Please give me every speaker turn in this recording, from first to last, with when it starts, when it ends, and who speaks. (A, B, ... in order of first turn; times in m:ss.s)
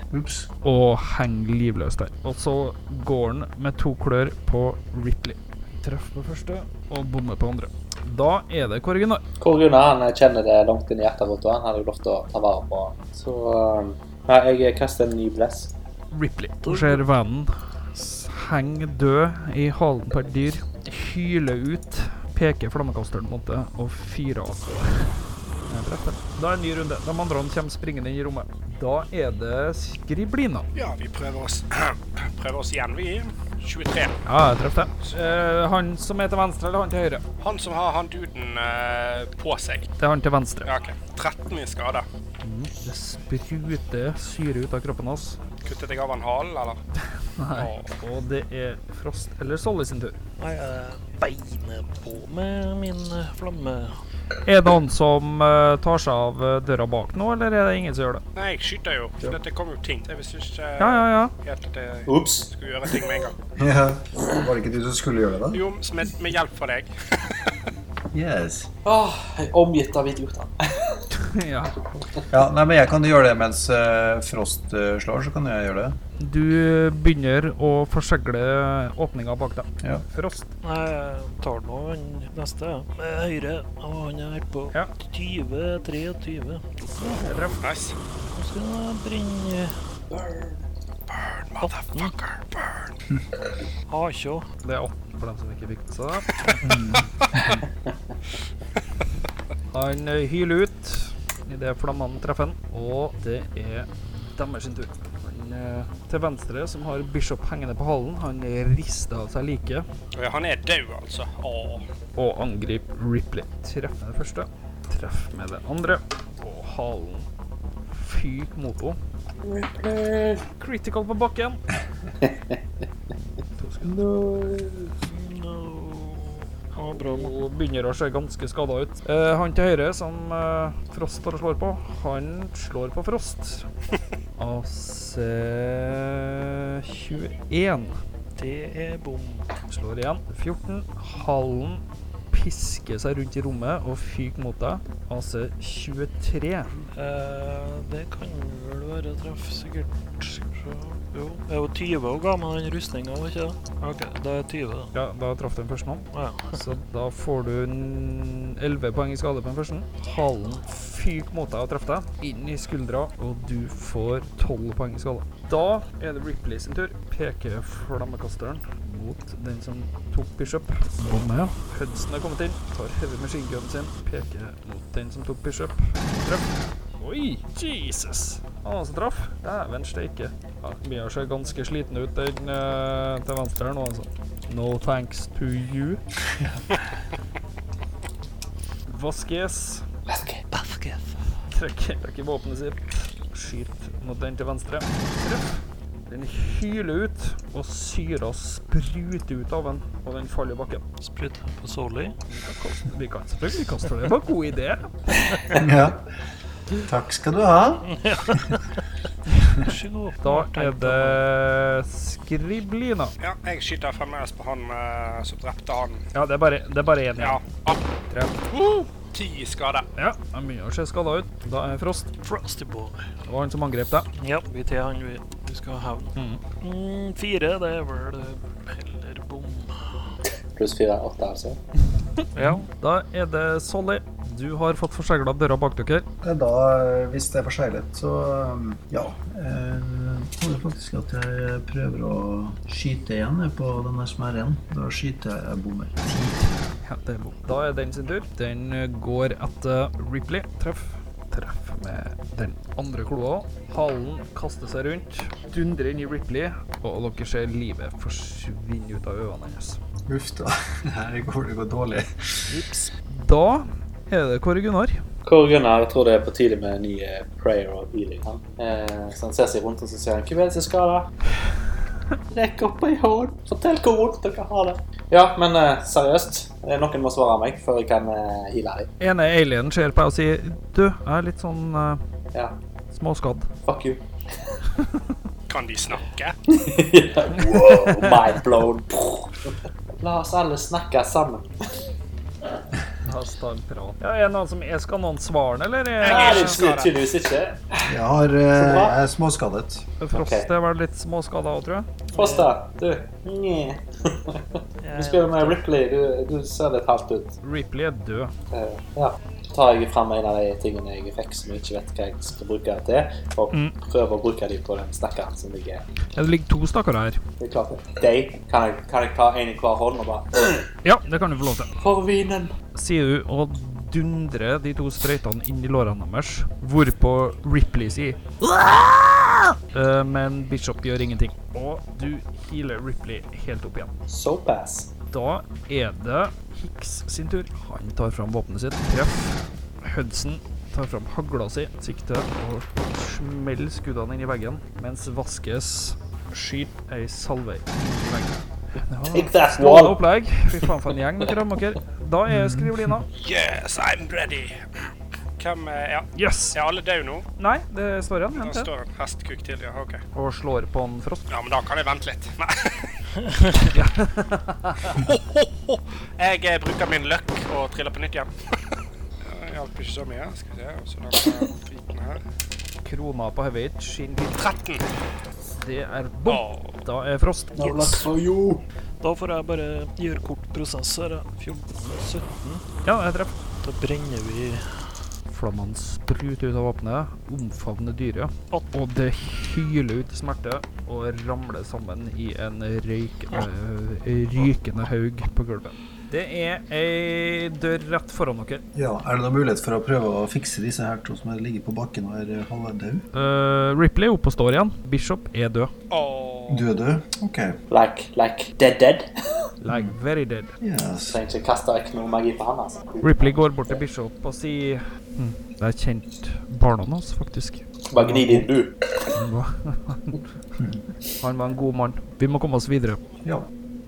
0:00.1-0:00.5 A
0:00.6-0:09.2 B
0:09.4-0:15.7 C
0:16.1-0:25.1 B
0:16.6-0:17.0 D
0:25.7-0:30.7 B
0:30.7-0:34.2 E
0:34.2-0:37.2 B
0:37.4-0:39.9 E
0:40.0-0:40.7 B
0:40.6-0:42.0 E
0:42.4-0:45.4 B
0:45.6-0:46.8 E
0:47.4-0:50.2 B
0:47.6-0:47.8 E
0:50.4-0:53.9 D
0:54.4-0:58.2 B
0:58.3-1:03.4 E
1:00.8-1:01.3 B
1:02.1-1:03.0 C
1:03.6-1:05.6 A
1:05.5-1:07.5 E
1:08.1-1:08.7 A
1:08.8-1:11.0 C
1:11.1-1:12.1 B
1:12.3-1:16.0 A
1:16.2-1:20.5 B
1:20.6-1:27.5 D
1:27.0-1:27.6 B
1:27.6-1:27.9 E
1:28.3-1:29.8 D
1:30.2-1:30.5 C
1:31.1-1:32.8 E
1:31.6-1:32.2 D
1:33.9-1:34.4 D
1:34.6-1:36.6 B
1:36.6-1:37.1 A
1:39.7-1:49.8 B
1:50.2-1:51.8 E
1:52.2-1:57.3 B
1:57.9-1:59.0 B
1:59.4-2:00.4 C
2:00.5-2:01.6 B
2:03.6-2:04.0 B
2:03.9-2:04.9 C
2:05.0-2:07.4 D
2:06.9-2:13.7 B
2:14.4-2:18.0 B
2:18.4-2:19.5 D
2:19.7-2:26.7 B
2:26.9-2:34.9 D
2:34.9-3:06.0 B
2:36.1-2:36.6 D
3:08.9-3:09.8 B
3:10.1-3:10.4 C
3:10.5-3:11.2 D
3:11.5-3:20.8 B
3:21.0-3:22.2 D
3:22.3-3:25.2 B
3:25.2-3:25.6 D
3:25.5-3:26.1 A
3:26.8-3:28.5 A
3:27.8-3:28.7 D
3:29.4-3:31.2 D
3:30.2-3:33.1 B
3:33.2-3:36.0 E
3:36.1-3:37.4 B
3:37.2-3:37.8 E
3:38.1-3:38.6 B
3:38.5-3:39.9 E
3:40.0-3:42.1 B
3:42.2-3:43.0 D
3:43.3-3:44.1 B
3:44.2-3:50.1 D
3:46.2-3:46.4 B
3:50.5-3:51.6 C
3:52.3-3:52.7 D
3:52.4-3:56.0 B
3:56.2-4:06.3 A
4:06.2-4:19.8 B
4:20.1-4:22.3 A
4:22.5-4:22.9 D
4:23.0-4:25.0 B
4:25.2-4:31.1 C
4:32.3-4:38.9 C
4:39.0-4:42.0 B
4:42.9-4:43.5 B
4:43.7-4:44.5 C
4:44.8-4:45.0 B
4:45.5-4:46.4 E
4:46.5-4:51.8 C
4:47.4-4:48.3 B
4:53.0-4:56.6 B
4:56.0-4:57.0 E
4:56.0-4:57.9 C
4:57.8-4:59.8 A
4:58.5-4:59.0 C
5:00.0-5:01.9 B
5:00.1-5:00.5 C
5:02.1-5:02.5 D
5:02.2-5:07.3 C
5:04.8-5:05.6 D
5:07.4-5:08.3 B
5:08.5-5:15.8 C
5:16.1-5:17.2 B
5:17.4-5:20.7 C
5:20.8-5:21.7 B
5:21.8-5:22.6 C
5:22.7-5:33.9 B
5:34.1-5:34.9 C
5:35.1-5:53.1 B
5:49.1-5:50.0 C
5:52.3-5:52.9 A
5:53.1-5:57.3 E
5:56.1-5:56.6 B
5:57.4-5:58.7 B
5:58.3-6:00.0 E
6:00.1-6:01.3 B
6:01.3-6:03.0 E
6:03.2-6:03.8 D
6:03.6-6:05.1 B
6:04.9-6:08.3 E
6:09.2-6:12.2 E
6:12.8-6:14.4 B
6:14.4-6:14.8 E
6:15.5-6:18.0 B
6:16.3-6:16.7 E
6:17.5-6:18.6 C
6:19.0-6:22.6 D
6:22.8-6:23.4 B
6:23.6-6:24.9 D
6:25.3-6:38.6 B
6:38.7-6:43.0 A
6:43.1-6:45.7 B
6:45.9-6:46.7 E
6:46.5-6:47.6 A
6:47.7-6:49.4 C
6:49.6-6:50.5 B
6:49.7-6:50.0 A
6:50.6-6:51.2 A
6:51.1-6:53.8 C
6:53.0-6:58.4 B
6:57.9-6:59.0 C
6:58.0-6:58.4 A
6:59.1-7:00.2 B
7:01.2-7:03.0 B
7:03.2-7:03.5 A